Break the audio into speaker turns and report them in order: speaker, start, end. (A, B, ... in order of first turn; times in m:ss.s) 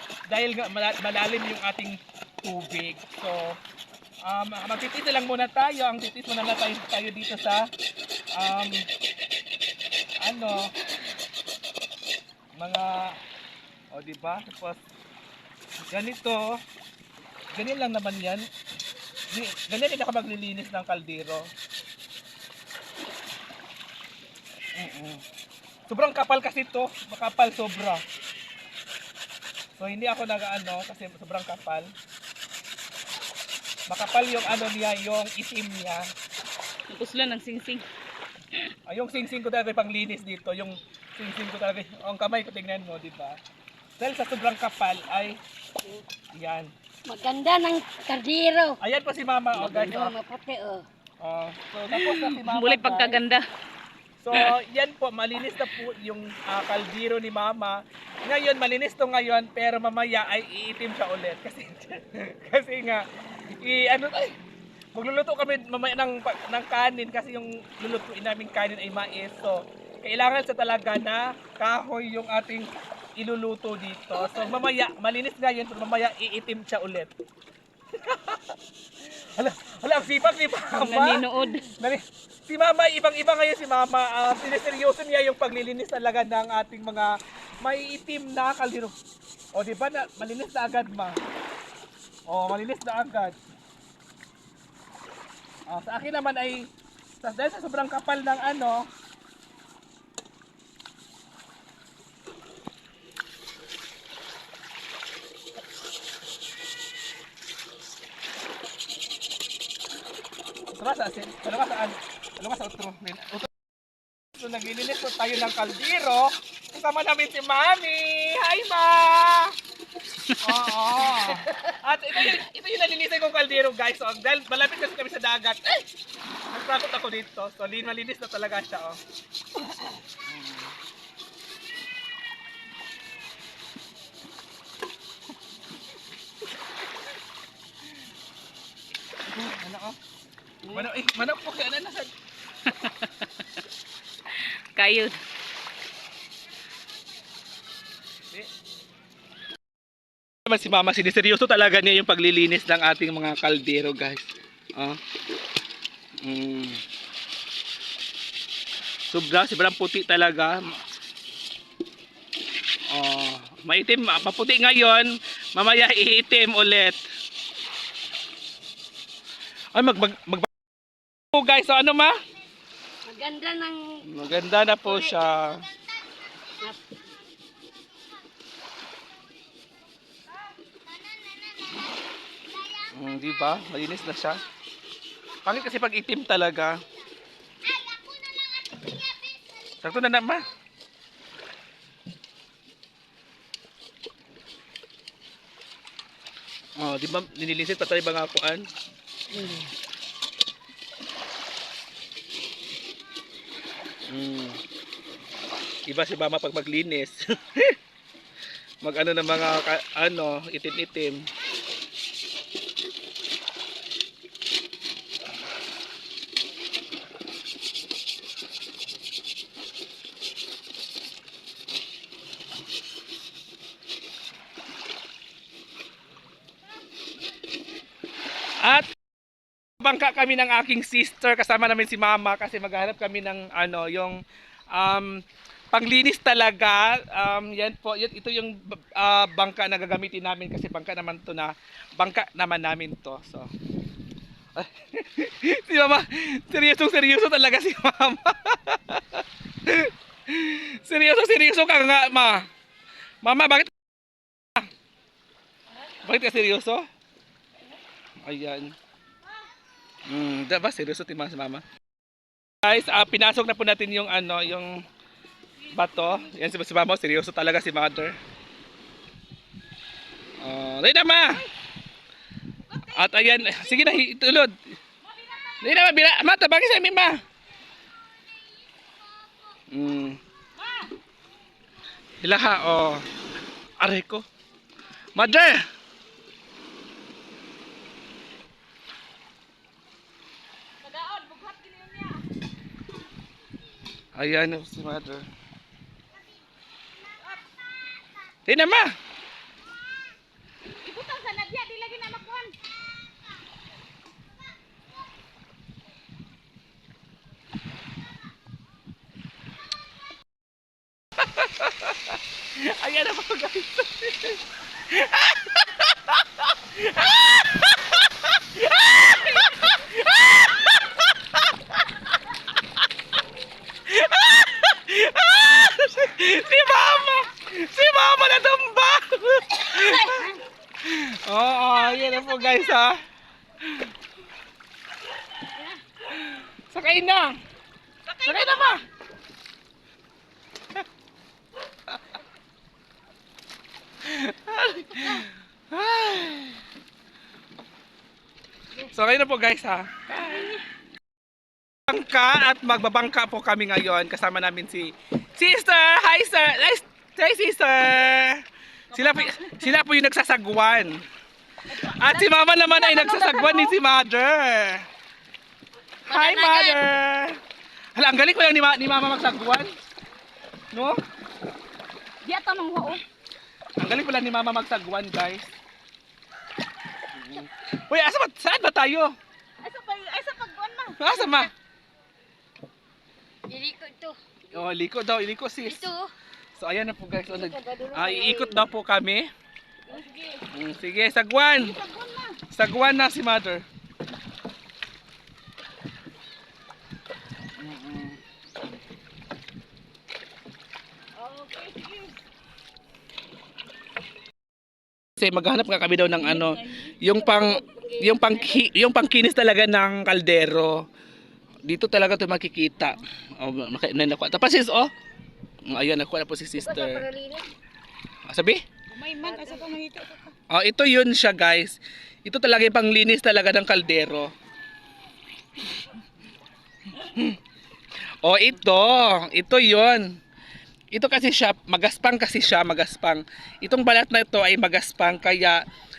0:00.3-0:03.6 A
0:04.2-0:07.7 A
0:08.3-0:08.9 A
0:10.2-0:10.7 A
0:12.6-0:13.2 A
0:13.9-0:14.8 A
0:15.9-0:16.6 A
0:17.5-0:18.5 A
0:19.3-0:21.5 A
0:24.8-0:25.2 A
0:25.9-0:28.0 A
0:29.8-0:31.9 A
0:33.9-0:36.1 A
0:36.9-0:37.8 B
0:38.9-0:43.4 A
0:44.0-0:45.4 A
0:46.4-0:46.7 A
0:47.0-0:48.8 C
0:48.8-0:50.1 A
0:49.6-0:50.8 C
0:51.2-0:53.2 A
0:51.9-0:53.4 B
0:54.2-1:04.4 A
1:04.9-1:17.1 A
1:18.0-1:21.2 A
1:20.7-1:21.7 B
1:21.8-1:29.0 A
1:29.5-1:31.2 A
1:32.3-1:33.4 A
1:35.7-1:36.7 A
1:37.2-1:38.9 A
1:50.7-1:53.5 A
1:54.3-1:59.6 A
2:00.4-2:05.9 A
2:06.5-2:09.0 A
2:10.3-2:10.7 A
2:19.3-2:20.0 A
2:20.6-2:20.9 B
2:20.7-2:22.1 A
2:22.8-2:23.3 B
2:24.4-2:25.2 B
2:30.5-2:35.0 A
2:36.2-2:36.8 A
2:39.1-2:40.8 A
2:42.9-2:47.0 A
2:49.7-2:50.5 A
2:51.3-2:52.2 A
2:53.0-2:54.0 C
2:54.0-2:55.6 A
2:54.9-2:55.2 C
3:02.9-3:04.4 A
3:05.4-3:06.8 A
3:09.8-3:10.4 A
3:16.8-3:18.7 A
3:19.3-3:19.7 C
3:24.1-3:24.6 A
3:25.9-3:27.8 A
3:28.8-3:31.3 A
3:48.6-3:48.9 A
3:49.8-3:54.2 A
3:54.7-4:03.5 A
4:04.6-4:12.5 A
4:13.2-4:13.7 A
4:16.0-4:16.9 A
4:18.2-4:18.8 A
4:20.1-4:21.6 A
4:22.6-4:24.8 A
4:25.7-4:28.2 A
4:30.4-4:31.5 A
4:32.7-4:34.0 B
4:32.8-4:34.7 A
4:35.0-4:35.8 B
4:35.6-4:37.2 A
4:39.7-4:40.2 A
4:40.6-4:41.0 B
4:42.2-4:43.1 A
4:43.8-4:44.3 A
4:45.1-4:45.6 A
4:50.8-4:52.3 B
4:54.2-4:55.3 A
4:58.5-4:59.0 A
5:00.8-5:02.5 B
5:11.2-5:12.0 A
5:12.6-5:21.8 A
5:23.8-5:30.3 A
5:30.8-5:33.0 A
5:31.7-5:32.8 B
5:33.6-5:33.9 A
5:36.1-5:37.4 A
5:38.1-5:38.8 B
5:38.2-5:38.8 A
5:44.0-5:46.6 A
5:48.9-5:50.4 A
5:51.9-6:01.0 A
5:58.9-5:59.7 B
6:01.7-6:03.8 B
6:01.7-6:04.9 A
6:06.1-6:07.4 A
6:06.1-6:06.8 C
6:06.3-6:06.7 B
6:08.0-6:09.8 A
6:10.7-6:11.0 A
6:12.2-6:13.0 B
6:13.8-6:15.5 A
6:17.1-6:19.2 A
6:19.6-6:21.5 B
6:21.0-6:21.5 A
6:23.5-6:24.2 C
6:24.5-6:25.9 A
6:25.6-6:26.1 C
6:26.6-6:29.3 A
6:27.3-6:28.7 C
6:29.9-6:30.5 B
6:30.5-6:31.8 A
6:31.6-6:32.4 B
6:32.5-6:33.6 A
6:37.6-6:38.2 A
6:41.2-6:42.2 B
6:45.2-6:50.8 A
6:46.1-6:46.9 B
6:47.0-6:48.7 C
6:51.6-6:54.9 A
6:55.7-6:57.1 A
6:56.6-6:57.5 C
6:58.3-6:58.6 A
6:58.9-7:00.4 B
6:59.2-6:59.7 C
7:00.5-7:04.3 A
7:06.9-7:07.4 A
7:08.2-7:10.2 A
7:10.9-7:15.6 A